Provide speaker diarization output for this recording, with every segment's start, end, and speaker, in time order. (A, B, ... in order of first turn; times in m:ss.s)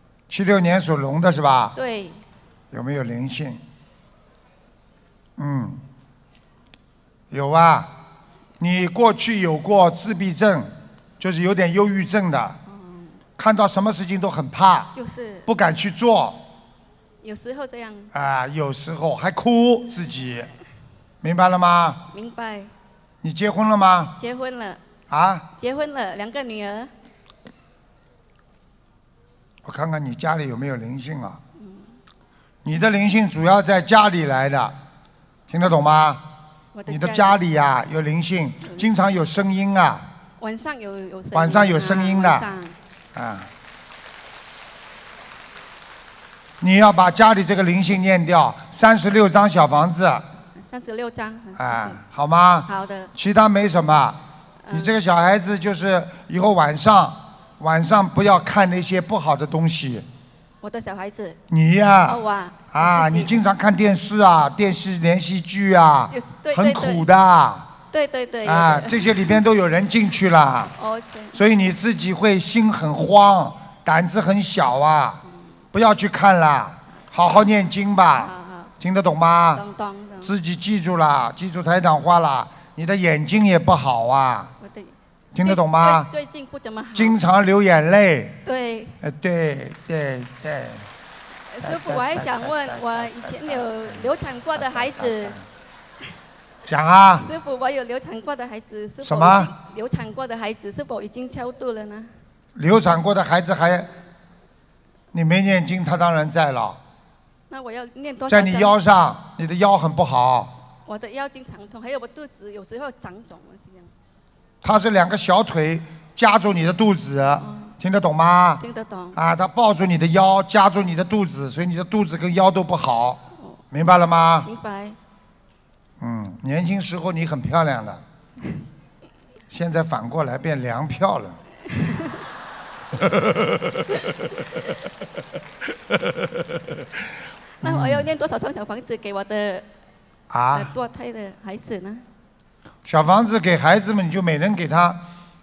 0:00.3-0:01.8 A
0:01.8-0:02.2 B
0:02.7-0:03.6 A
0:05.4-0:05.8 A
0:07.3-0:07.9 A
0:08.6-0:12.6 A
0:12.7-0:13.2 B
0:13.4-0:14.9 A
0:14.9-0:15.5 B
0:15.5-0:16.4 A
0:17.2-0:18.1 B
0:18.1-0:20.5 A
0:21.2-0:22.0 A
0:22.1-0:22.7 B
0:23.2-0:24.2 A
0:24.2-0:24.8 B
0:25.1-0:25.5 A
0:25.6-0:26.9 B
0:29.6-0:31.4 A
0:31.6-0:31.9 B
0:32.6-0:34.7 A
0:35.5-0:36.2 A
0:36.7-0:37.4 B
0:36.9-0:40.0 A
0:40.4-0:42.8 B
0:41.3-0:42.5 A
0:43.2-0:43.5 A
0:46.6-0:50.2 A
0:50.6-0:52.0 B
0:51.6-0:54.2 A
0:52.7-0:53.1 B
0:54.6-0:55.0 B
0:54.7-1:00.0 A
1:00.6-1:01.4 B
1:01.5-1:02.2 A
1:02.1-1:03.4 B
1:02.7-1:07.7 A
1:06.1-1:07.1 B
1:07.9-1:09.4 B
1:08.4-1:10.8 A
1:10.8-1:11.4 B
1:11.3-1:15.2 A
1:15.7-1:19.6 A
1:18.2-1:18.7 B
1:19.6-1:20.3 B
1:20.2-1:24.5 A
1:24.6-1:27.2 B
1:25.3-1:26.1 A
1:27.0-1:28.4 A
1:28.4-1:29.0 B
1:29.0-1:30.9 A
1:31.5-1:35.4 B
1:31.6-1:35.4 A
1:36.7-1:37.3 A
1:37.2-1:42.1 B
1:39.0-1:39.5 A
1:42.6-1:43.9 A
1:45.1-1:46.8 A
1:47.5-1:48.8 B
1:48.3-1:50.5 A
1:50.9-1:53.9 B
1:54.6-1:58.6 A
1:57.4-1:57.8 B
1:58.6-1:59.2 B
1:59.2-2:03.2 A
2:03.7-2:04.5 A
2:04.4-2:05.0 B
2:06.0-2:08.0 A
2:09.5-2:11.4 A
2:11.7-2:12.2 B
2:17.6-2:19.6 B
2:17.6-2:18.1 A
2:20.3-2:20.7 A
2:20.5-2:22.0 B
2:22.8-2:25.0 A